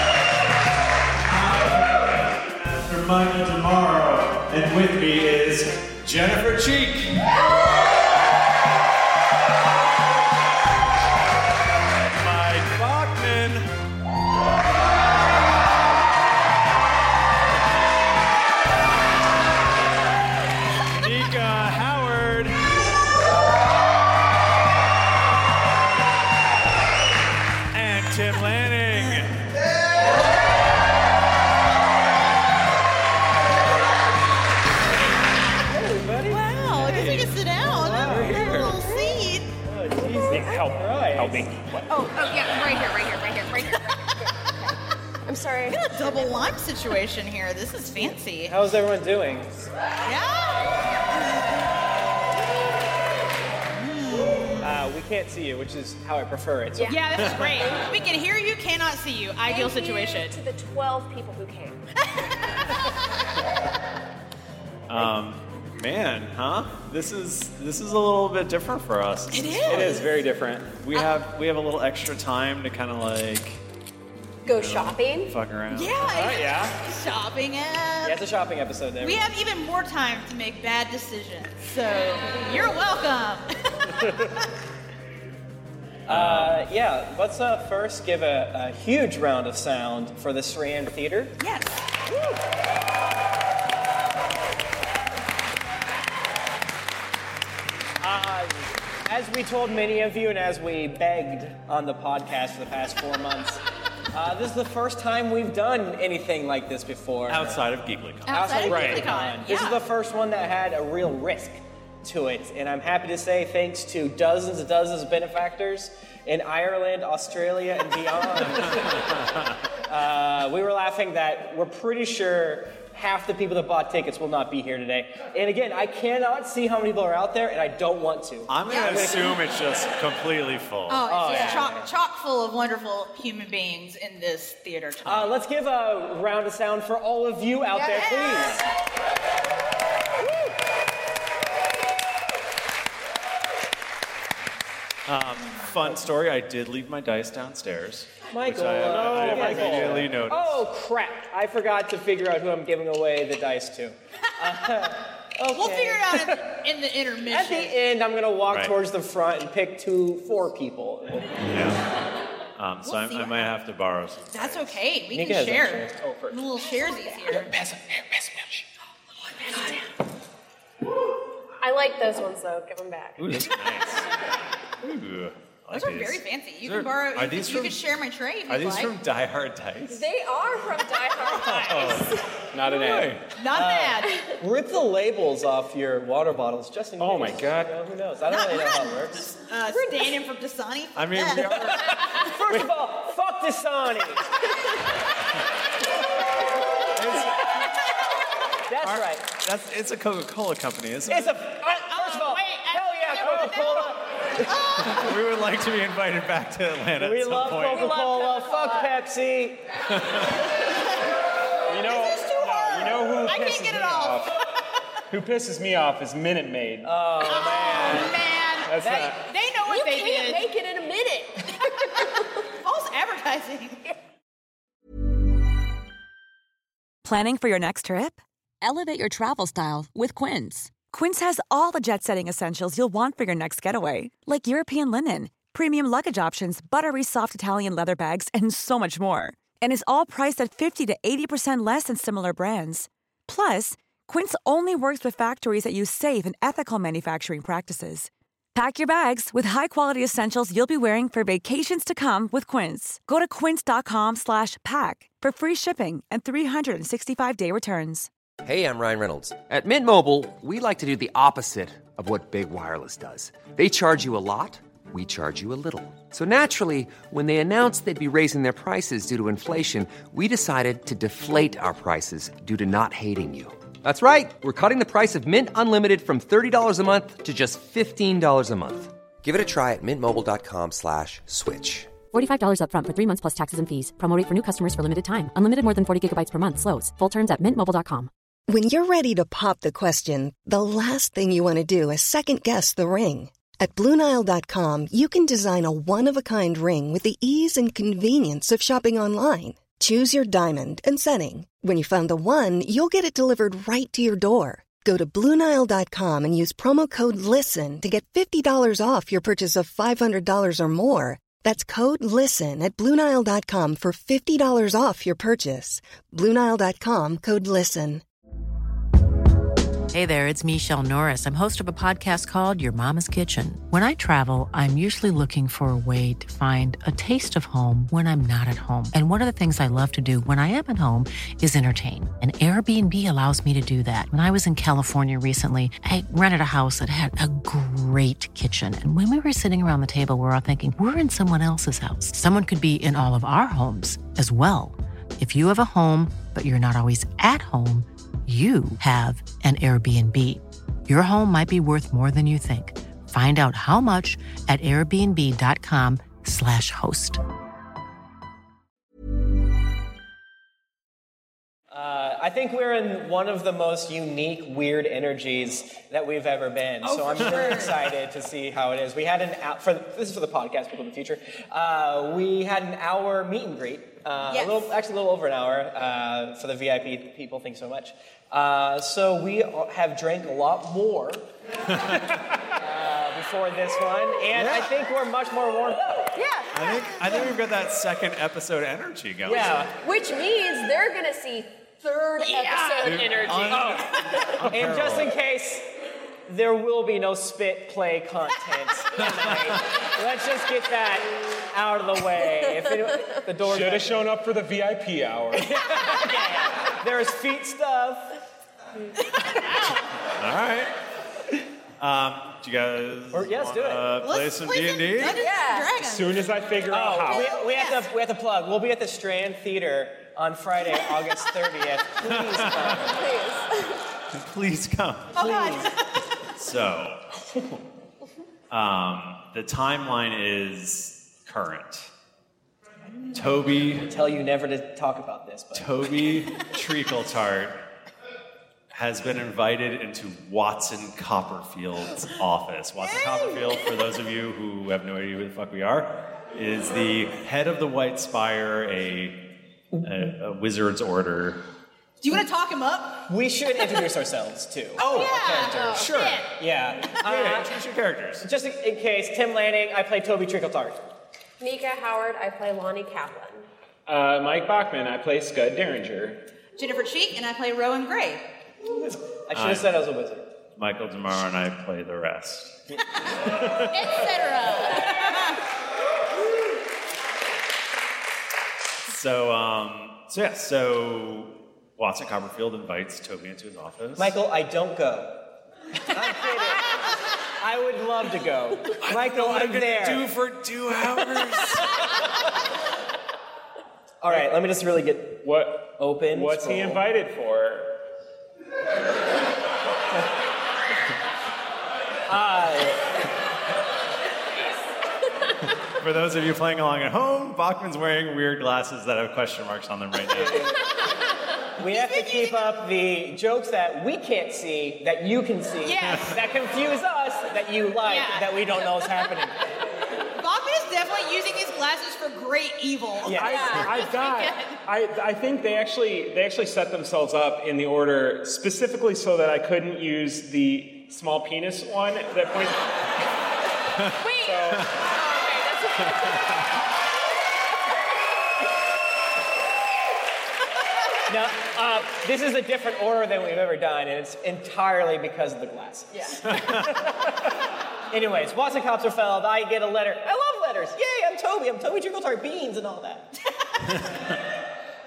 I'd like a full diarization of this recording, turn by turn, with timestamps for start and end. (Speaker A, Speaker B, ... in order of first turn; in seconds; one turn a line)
Speaker A: 1.2-7.2
Speaker A: 12.1-13.7
Speaker A: 20.9-22.7
Speaker A: 27.7-29.4
Speaker B: 35.7-36.4
Speaker C: 36.3-39.5
Speaker A: 36.8-37.3
Speaker B: 37.7-39.0
Speaker A: 37.8-38.8
Speaker B: 39.6-41.5
Speaker D: 40.1-41.9
Speaker C: 41.9-44.0
Speaker E: 44.1-46.5
Speaker C: 45.7-48.5
Speaker B: 48.4-49.6
Speaker C: 50.0-50.9
Speaker C: 54.1-54.5
Speaker B: 54.6-56.9
Speaker E: 56.8-57.9
Speaker C: 56.9-60.4
Speaker A: 57.2-57.5
Speaker E: 59.5-61.8
Speaker A: 64.9-70.0
Speaker C: 69.3-70.0
Speaker D: 69.7-70.8
Speaker A: 70.7-73.6
Speaker E: 74.4-75.3
Speaker A: 74.5-76.0
Speaker C: 75.7-78.2
Speaker D: 76.0-76.8
Speaker B: 78.0-79.3
Speaker C: 79.0-84.4
Speaker B: 86.1-91.3
Speaker A: 86.1-86.5
Speaker C: 91.4-91.9
Speaker B: 98.0-103.6
Speaker B: 104.1-107.6
Speaker A: 107.3-109.1
Speaker C: 108.3-109.8
Speaker B: 108.3-119.0
Speaker B: 119.9-129.4
Speaker A: 128.5-131.6
Speaker C: 128.7-129.3
Speaker C: 130.9-135.3
Speaker B: 131.1-131.9
Speaker E: 131.3-131.6
Speaker B: 135.0-138.6
Speaker C: 137.7-138.6
Speaker A: 145.1-150.7
Speaker B: 148.3-156.4
Speaker D: 148.8-150.1
Speaker C: 155.5-157.8
Speaker B: 157.3-161.4
Speaker A: 158.5-158.8
Speaker A: 161.4-161.8
Speaker A: 162.6-164.8
Speaker C: 162.8-163.5
Speaker C: 164.3-167.5
Speaker B: 165.1-165.9
Speaker D: 165.9-166.6
Speaker E: 166.8-167.2
Speaker D: 167.4-168.6
Speaker E: 171.6-173.2
Speaker A: 173.2-174.1
Speaker A: 174.8-177.8
Speaker C: 175.7-178.9
Speaker A: 178.5-180.0
Speaker E: 179.9-182.3
Speaker A: 181.2-183.2
Speaker D: 182.5-183.2
Speaker C: 183.3-184.2
Speaker B: 183.5-189.3
Speaker D: 187.0-187.8
Speaker C: 188.4-191.5
Speaker A: 190.9-191.9
Speaker D: 191.3-191.7
Speaker B: 191.5-194.2
Speaker A: 196.9-197.5
Speaker B: 198.7-199.2
Speaker A: 198.8-201.3
Speaker B: 201.1-204.6
Speaker C: 201.7-204.9
Speaker A: 204.8-207.9
Speaker B: 207.0-209.6
Speaker E: 207.6-208.9
Speaker D: 211.7-214.3
Speaker C: 211.8-214.3
Speaker D: 215.1-216.9
Speaker B: 216.8-218.2
Speaker C: 217.2-220.4
Speaker D: 218.6-219.2
Speaker B: 218.8-219.2
Speaker E: 219.7-222.2
Speaker C: 222.6-223.8
Speaker F: 227.0-258.1
Speaker G: 258.4-281.9
Speaker H: 282.1-288.1
Speaker I: 288.5-318.0
Speaker J: 319.9-357.2
Speaker B: 361.7-381.2
Speaker C: 366.8-367.8
Speaker C: 374.3-374.7
Speaker B: 382.6-386.1
Speaker A: 384.3-384.7
Speaker E: 386.1-386.4
Speaker C: 386.1-386.5
Speaker A: 386.5-389.7
Speaker B: 389.2-389.7
Speaker E: 389.6-394.4
Speaker C: 392.2-393.0
Speaker A: 392.8-395.1
Speaker B: 394.5-395.6
Speaker B: 396.3-403.9
Speaker A: 399.0-399.6
Speaker D: 403.4-405.5
Speaker B: 405.3-408.1
Speaker C: 409.0-409.9
Speaker A: 410.2-410.7
Speaker A: 411.8-415.3
Speaker B: 413.1-413.9
Speaker C: 414.0-416.4
Speaker E: 415.1-415.7
Speaker D: 415.8-417.3
Speaker B: 416.7-423.0
Speaker C: 417.1-417.9
Speaker A: 422.1-422.8
Speaker E: 422.8-423.8
Speaker A: 424.1-425.3
Speaker C: 425.1-425.8
Speaker B: 425.2-425.7
Speaker A: 426.3-427.0
Speaker A: 428.5-431.9
Speaker A: 433.1-433.9
Speaker B: 433.9-435.7
Speaker A: 435.5-437.6
Speaker A: 438.7-449.2
Speaker B: 449.7-450.0
Speaker A: 449.8-451.4
Speaker C: 452.0-453.8
Speaker B: 453.1-457.5
Speaker C: 454.8-456.3
Speaker A: 454.8-455.1
Speaker E: 455.6-455.8
Speaker A: 455.7-456.2
Speaker A: 457.0-458.3
Speaker B: 458.2-460.8
Speaker E: 461.4-463.5
Speaker D: 463.9-466.2
Speaker C: 466.6-468.2
Speaker B: 468.7-470.2
Speaker A: 469.3-469.7
Speaker A: 470.6-472.6
Speaker A: 473.3-473.8
Speaker C: 473.6-475.4
Speaker A: 478.8-484.1
Speaker B: 484.0-485.1
Speaker B: 485.9-486.8
Speaker B: 487.4-490.1
Speaker A: 488.8-491.8
Speaker B: 494.0-496.8
Speaker D: 495.2-497.7
Speaker B: 502.1-502.9
Speaker A: 505.8-510.6
Speaker B: 510.1-510.9
Speaker B: 511.6-519.3
Speaker C: 511.7-512.5
Speaker C: 515.6-516.2
Speaker C: 517.8-519.0
Speaker C: 520.2-524.6
Speaker B: 523.0-523.7
Speaker D: 523.1-532.8
Speaker E: 534.0-536.4
Speaker D: 534.2-534.7
Speaker A: 535.8-536.5
Speaker B: 541.1-546.9
Speaker A: 546.3-546.8
Speaker B: 547.9-553.1